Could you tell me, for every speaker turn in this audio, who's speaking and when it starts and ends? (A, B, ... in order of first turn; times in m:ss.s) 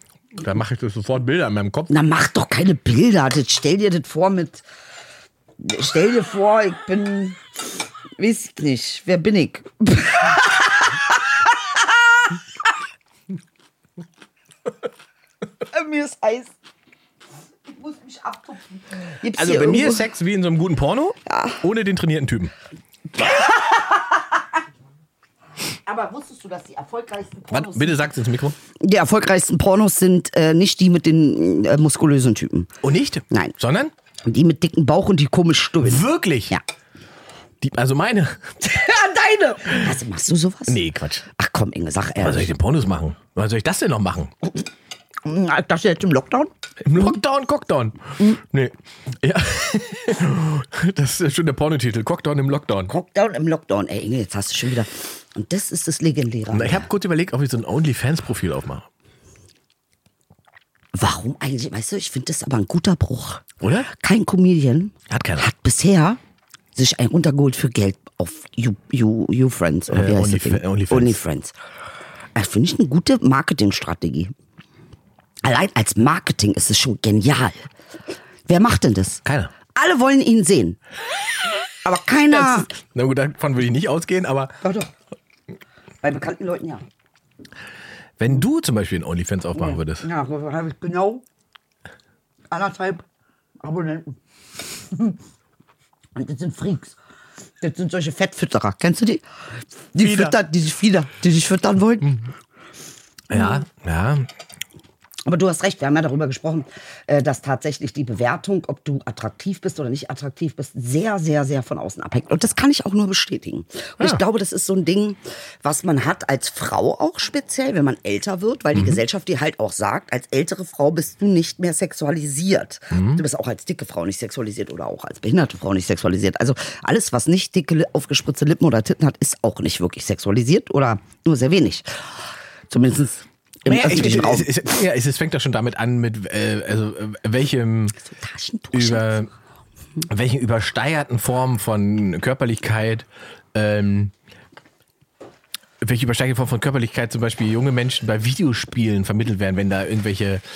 0:00.4-0:01.9 A
0:01.9-0:04.6 B
0:05.6-0:07.4 B
0:08.2-0:12.2 B
0:15.7-0:16.5 B
0:17.7-0:20.0 B
0:19.3-0:22.5 A
0:21.3-0:21.6 B
0:23.1-0:24.2 B
0:25.8-0:28.0 B
0:27.5-0:28.6 A
0:28.8-0:32.7 B
0:32.8-0:33.9 A
0:34.2-0:36.6 B
0:35.8-0:36.6 A
0:37.6-0:38.6 A
0:38.6-0:42.5 B
0:40.7-0:41.2 A
0:42.2-0:44.3 A
0:45.2-0:47.1 B
0:46.8-0:52.9 A
0:52.9-0:56.9 B
0:56.5-0:58.9 A
1:00.9-1:06.2 B
1:03.6-1:03.9 A
1:05.1-1:05.5 A
1:06.8-1:11.5 B
1:09.9-1:11.2 A
1:12.3-1:14.3 B
1:15.4-1:17.7 B
1:18.5-1:19.2 B
1:19.2-1:19.5 A
1:19.7-1:20.8 B
1:21.8-1:22.7 B
1:22.3-1:24.5 A
1:24.6-1:24.9 B
1:26.0-1:26.8 B
1:28.2-1:30.0 A
1:29.5-1:31.2 B
1:32.5-1:33.0 B
1:33.6-1:34.2 B
1:34.9-1:35.2 B
1:36.2-1:37.0 B
1:37.6-1:39.2 B
1:39.9-1:42.2 B
1:40.0-1:40.4 A
1:43.3-1:44.3 A
1:45.2-2:11.9 B
1:58.7-1:59.0 A
2:02.9-2:03.2 A
2:12.7-2:14.5 B
2:13.6-2:18.0 A
2:18.0-2:19.1 B
2:18.7-2:19.3 A
2:20.0-2:24.1 A
2:25.8-2:30.4 A